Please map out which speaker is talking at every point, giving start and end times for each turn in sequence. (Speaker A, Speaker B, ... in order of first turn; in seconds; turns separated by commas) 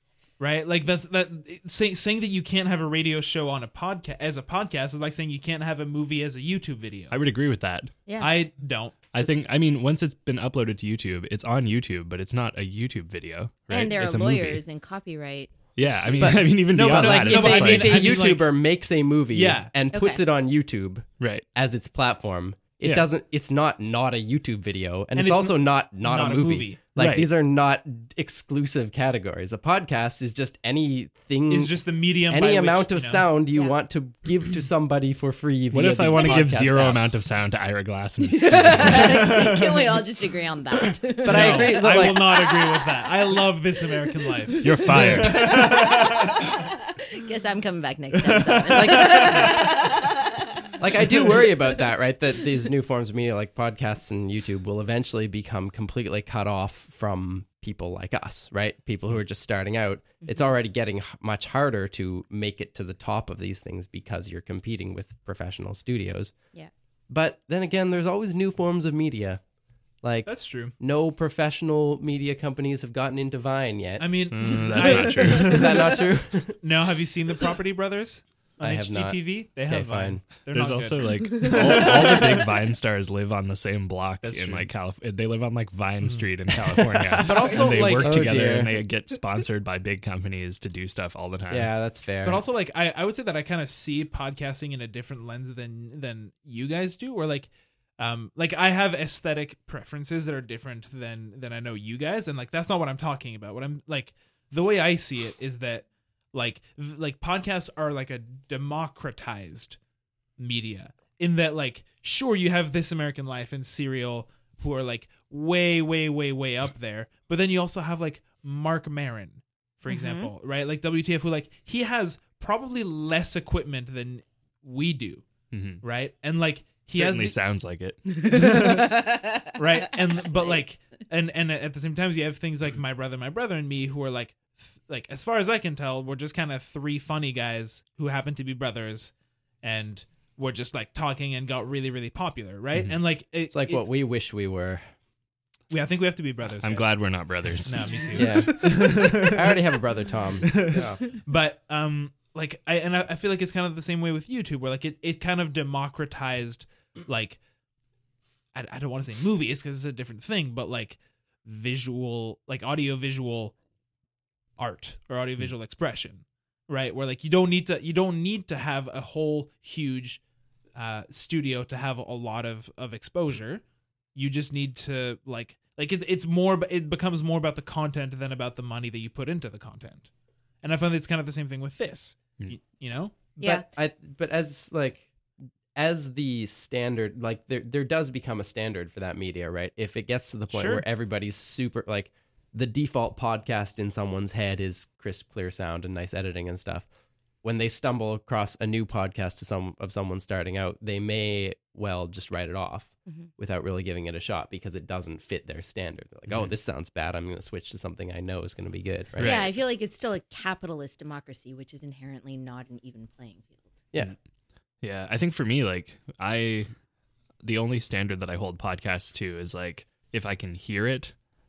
Speaker A: 0.4-7.2, Speaker B: 7.1-8.0, Speaker C: 8.1-8.4, Speaker A: 8.2-9.1, Speaker B: 9.1-14.6, Speaker C: 13.7-15.5, Speaker B: 15.8-18.1, Speaker D: 16.2-31.8, Speaker A: 16.7-18.5, Speaker A: 19.3-19.7, Speaker C: 19.9-20.2, Speaker B: 21.2-21.4, Speaker B: 22.8-23.1, Speaker A: 25.1-26.8, Speaker B: 27.0-27.3, Speaker A: 31.5-33.3, Speaker D: 32.3-37.0, Speaker B: 35.7-39.4, Speaker C: 38.2-43.5, Speaker A: 39.2-39.7, Speaker D: 41.2-42.2, Speaker A: 41.2-46.4, Speaker C: 44.2-50.3, Speaker B: 44.6-45.7, Speaker A: 48.2-49.6, Speaker D: 48.7-49.6, Speaker D: 50.8-66.3, Speaker D: 67.1-69.4, Speaker D: 70.0-76.6, Speaker A: 70.3-70.8, Speaker A: 74.0-76.0, Speaker B: 74.3-75.7, Speaker A: 76.6-82.5, Speaker D: 78.6-80.2, Speaker B: 80.5-91.7, Speaker C: 81.2-81.5, Speaker A: 84.2-84.7, Speaker A: 86.0-86.3, Speaker D: 87.1-88.8, Speaker A: 87.2-88.3, Speaker D: 91.5-92.4, Speaker A: 92.2-109.8, Speaker A: 110.4-125.2, Speaker C: 119.9-120.3, Speaker B: 125.5-125.8, Speaker A: 125.8-127.4, Speaker B: 126.9-128.4, Speaker C: 128.2-129.5, Speaker A: 128.2-143.9, Speaker D: 143.5-144.8, Speaker A: 145.7-147.0, Speaker B: 146.6-148.3, Speaker A: 147.7-149.6, Speaker D: 148.2-151.0, Speaker A: 150.4-157.4, Speaker A: 158.5-163.6, Speaker A: 164.6-170.2, Speaker A: 170.8-173.6, Speaker A: 174.2-180.1, Speaker A: 180.6-183.2, Speaker C: 183.4-183.7, Speaker D: 183.4-185.1, Speaker D: 185.8-196.9, Speaker A: 190.5-190.8, Speaker D: 197.4-209.5, Speaker B: 209.2-209.5, Speaker C: 209.2-213.6, Speaker B: 214.8-216.7, Speaker B: 217.4-221.1